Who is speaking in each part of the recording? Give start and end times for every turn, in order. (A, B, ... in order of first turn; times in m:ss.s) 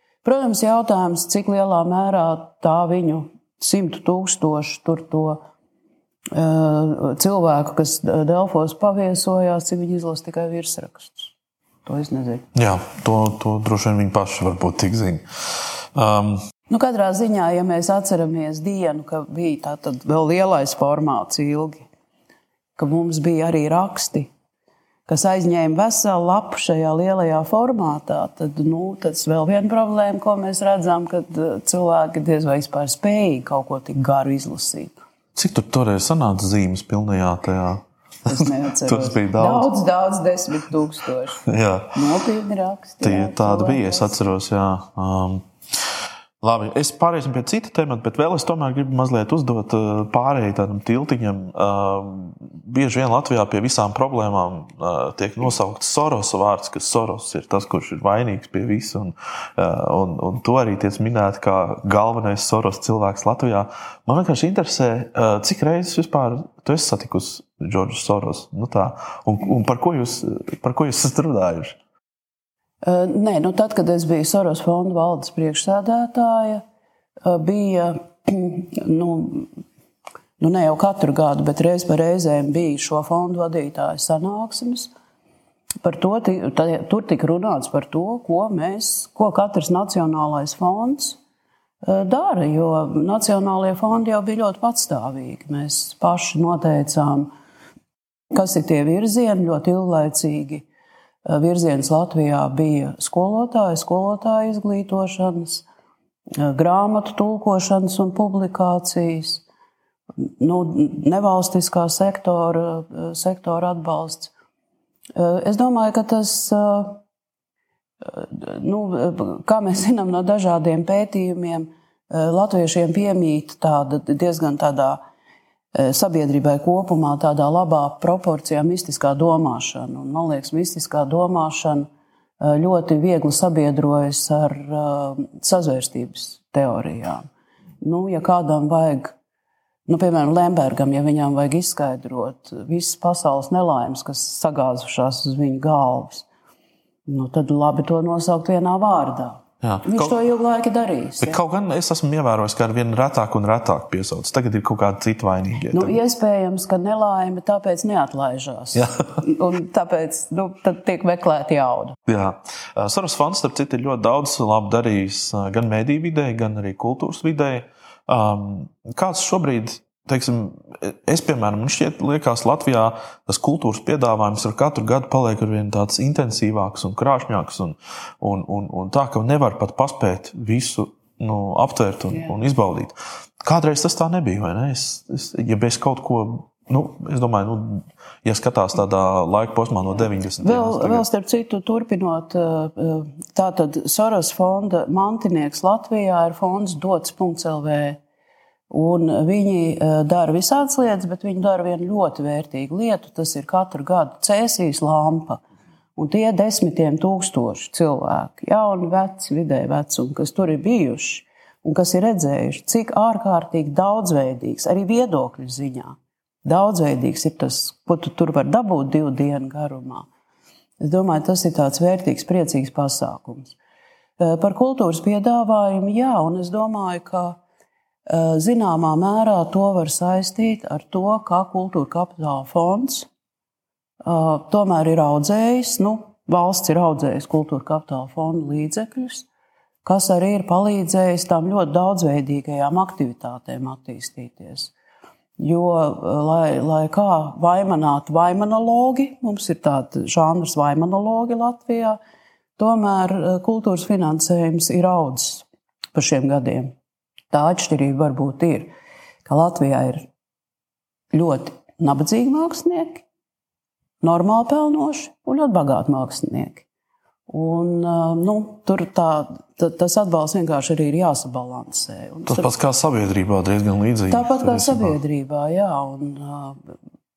0:00.2-0:05.4 A
0:06.3-0:11.3 A
0:11.9-0:12.5 A
0:12.5-0:16.4 B
0:16.7-0:21.9 A
0:22.8-0:24.3 A
0:25.1-0:35.0 A
0:35.4-0:39.7 B
0:38.3-0:41.4 A
0:41.5-0:42.0 B
0:41.9-0:44.2 A
0:43.0-0:45.4 B
0:46.4-1:11.8 B
1:12.8-1:16.6 A
1:17.2-1:19.5 A
1:20.4-1:24.9 A
1:25.8-1:31.2 A
1:31.8-1:37.3 A
1:38.3-1:40.6 A
1:41.2-1:45.6 A
1:46.4-1:49.4 A
1:50.3-1:54.3 A
1:55.1-1:57.0 A
1:58.0-2:05.0 A
2:05.7-2:11.9 A
2:12.4-2:17.2 A
2:17.8-2:19.2 A
2:19.9-2:26.3 A
2:27.1-2:31.4 A
2:29.6-2:30.2 B
2:31.2-2:36.0 B
2:35.7-2:42.0 A
2:38.8-2:39.2 B
2:42.1-3:11.1 B
3:10.4-3:18.0 A
3:18.7-3:25.4 A
3:26.0-3:40.1 A
3:40.8-3:43.6 A
3:44.2-3:47.4 A
3:48.1-3:53.1 A
3:54.0-3:59.3 A
3:59.8-4:04.7 A
4:05.4-4:12.0 A
4:12.6-4:16.8 A
4:17.3-4:18.7 A
4:19.2-4:20.1 A
4:21.1-4:23.0 A
4:24.0-4:26.6 A
4:27.3-4:32.5 A
4:32.2-4:35.0 B
4:34.1-4:36.6 A